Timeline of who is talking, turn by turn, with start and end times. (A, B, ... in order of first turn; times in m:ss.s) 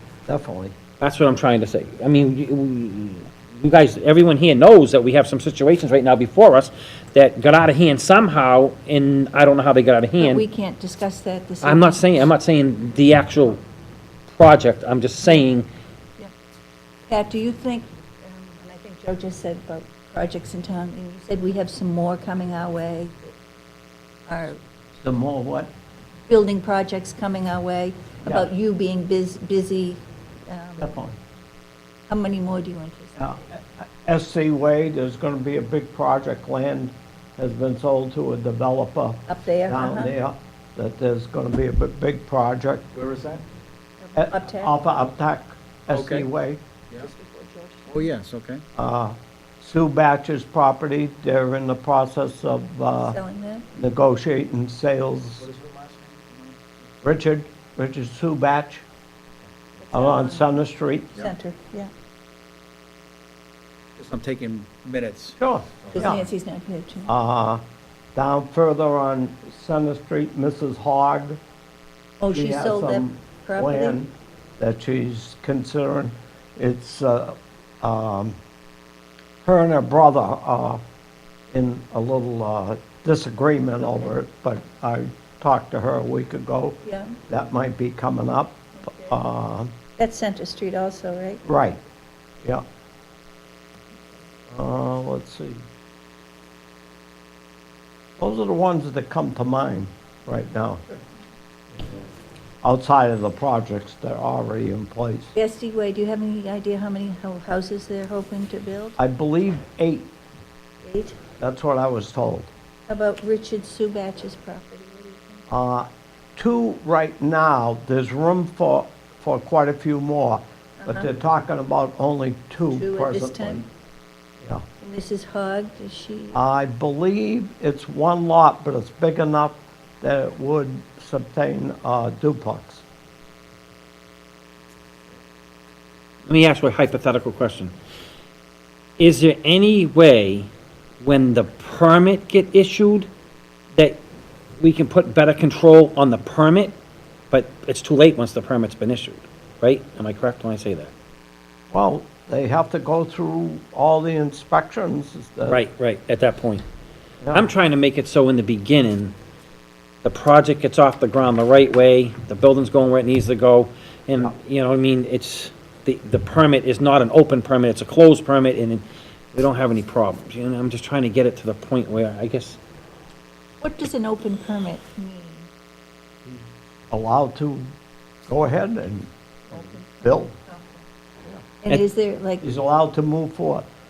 0:00.2-0:00.7 A
0:01.0-0:10.4 B
0:10.2-0:12.2 C
0:11.6-0:13.6 B
0:14.3-0:15.7 B
0:17.1-0:23.3 C
0:24.3-0:24.6 C
0:25.0-0:25.7 A
0:26.3-0:30.9 C
0:30.8-0:31.2 A
0:32.1-0:33.3 C
0:33.2-0:42.8 A
0:39.3-0:40.1 C
0:42.9-0:43.4 D
0:44.0-0:44.7 C
0:44.2-0:46.6 A
0:45.9-0:46.3 D
0:47.0-0:48.1 C
0:47.9-0:48.6 D
0:48.8-0:53.2 A
0:53.0-0:53.6 C
0:53.8-0:55.4 A
0:55.4-0:56.6 D
0:57.0-0:58.8 A
0:59.8-1:00.5 C
0:59.9-1:01.2 A
1:01.2-1:01.9 C
1:04.0-1:06.2 D
1:05.4-1:06.2 A
1:05.9-1:07.1 C
1:07.0-1:07.6 A
1:08.1-1:11.4 A
1:12.2-1:14.0 C
1:12.3-1:18.3 A
1:19.4-1:20.8 A
1:21.5-1:26.8 A
1:26.8-1:27.1 C
1:27.3-1:29.7 A
1:28.8-1:29.1 C
1:30.0-1:31.4 C
1:31.4-1:31.8 A
1:34.5-1:35.6 A
1:38.2-1:40.8 A
1:41.7-1:42.0 A
1:42.6-1:45.3 A
1:45.3-1:49.0 C
1:49.0-1:50.1 A
1:50.8-1:51.2 C
1:51.4-1:52.5 A
1:52.9-1:55.5 C
1:55.5-2:03.7 A
2:00.8-2:01.1 C
2:02.7-2:03.6 C
2:04.8-2:06.4 C
2:06.3-2:12.8 A
2:16.2-2:17.7 B
2:19.0-2:20.5 B
2:21.0-2:23.1 B
2:24.6-2:26.7 B
2:27.3-2:30.9 B
2:31.7-2:35.6 A
2:35.5-2:36.6 B
2:37.2-2:37.5 A
2:37.3-2:39.1 B
2:40.0-2:52.6 B
2:53.6-2:55.5 C
2:56.2-2:57.7 A
2:58.3-3:00.3 A
2:59.5-3:00.8 C
3:01.6-3:02.4 C
3:02.4-3:03.6 A